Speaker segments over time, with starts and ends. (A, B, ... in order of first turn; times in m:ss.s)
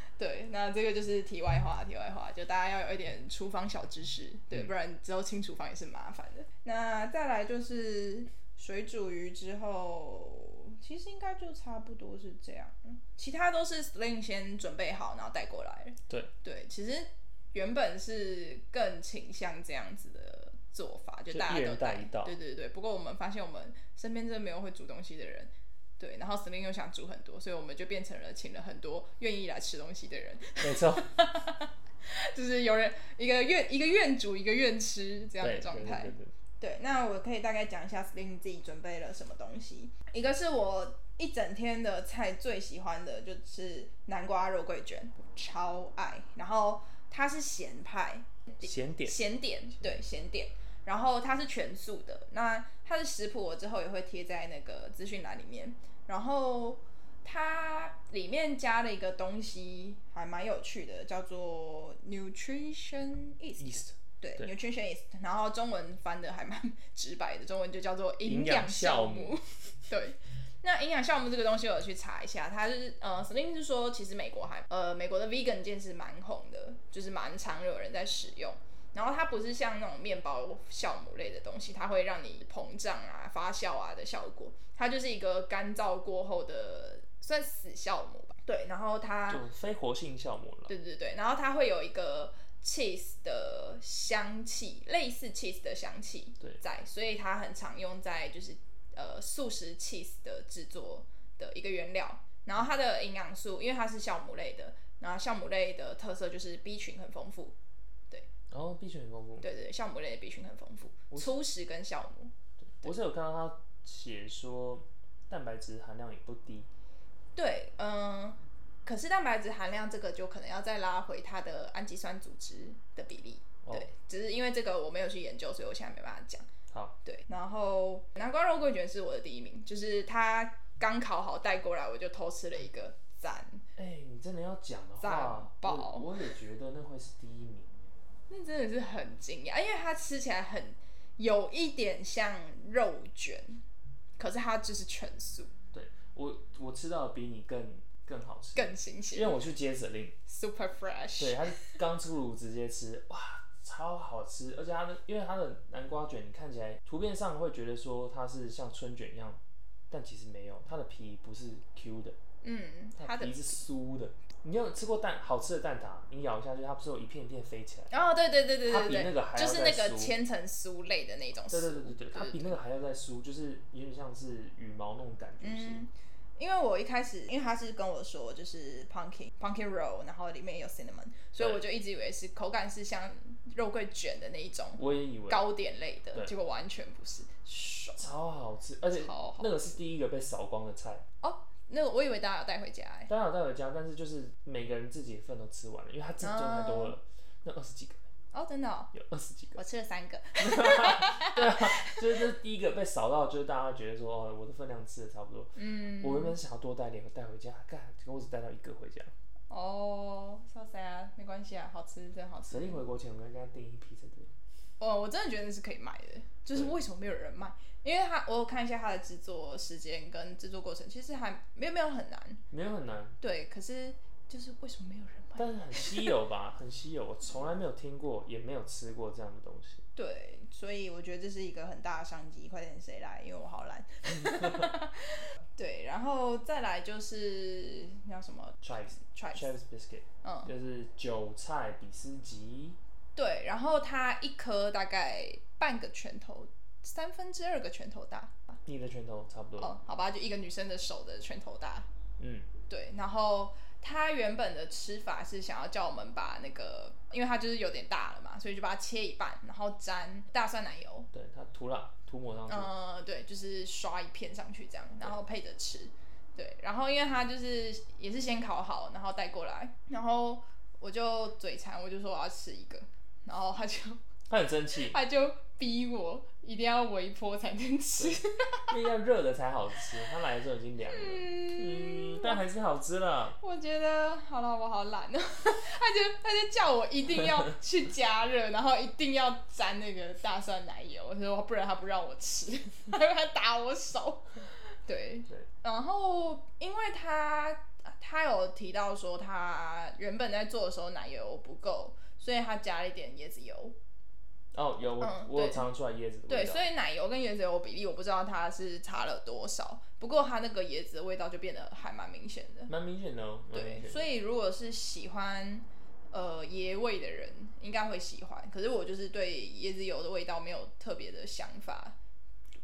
0:00.2-1:29.4 A
0:21.3-0:22.4 B
0:30.6-0:31.1 B
0:35.4-0:36.3 B
0:48.6-0:49.2 B
1:03.6-1:04.5 B
1:08.2-1:09.4 B
1:29.3-1:30.7 B
1:30.7-1:47.5 A
1:48.5-1:49.5 B
1:49.4-1:52.9 A
1:51.1-1:51.4 B
1:52.6-1:56.7 B
1:57.4-2:06.4 A
2:03.6-2:03.9 B
2:07.0-2:13.6 A
2:13.8-2:17.9 B
2:15.0-2:16.3 A
2:18.3-2:23.6 A
2:24.2-2:25.5 A
2:25.7-2:30.2 B
2:28.6-2:29.4 A
2:30.2-2:31.8 A
2:31.2-2:42.2 B
2:42.4-2:43.5 A
2:43.0-2:48.1 B
2:47.9-2:52.6 A
2:48.6-2:50.2 B
2:51.5-2:55.8 B
2:55.4-3:08.0 A
3:04.8-3:05.4 B
3:08.0-3:11.0 B
3:08.9-3:09.5 A
3:11.2-3:13.1 A
3:13.1-3:18.0 B
3:16.2-3:16.9 A
3:18.3-3:18.9 A
3:18.9-3:19.6 B
3:19.5-3:22.2 A
3:20.4-3:29.1 B
3:25.6-3:26.4 A
3:29.5-3:32.8 A
3:32.5-3:34.3 B
3:34.8-3:42.4 A
3:42.5-3:43.2 B
3:43.2-3:46.1 A
3:45.4-3:49.8 B
3:50.0-3:59.4 A
3:54.2-3:54.7 B
3:58.6-4:02.8 B
4:00.2-4:00.5 A
4:03.2-4:08.6 A
4:08.6-4:09.8 B
4:09.6-4:11.9 A
4:12.2-4:12.5 B
4:12.7-4:21.1 A
4:21.1-4:22.7 B
4:22.5-4:34.0 A
4:34.3-4:35.0 B
4:34.8-4:38.7 A
4:38.0-4:43.4 B
4:40.9-4:42.4 A
4:43.4-5:03.8 A
5:04.5-5:06.7 B
5:05.0-5:05.7 A
5:06.3-5:12.7 A
5:12.7-5:14.1 B
5:13.5-5:22.0 A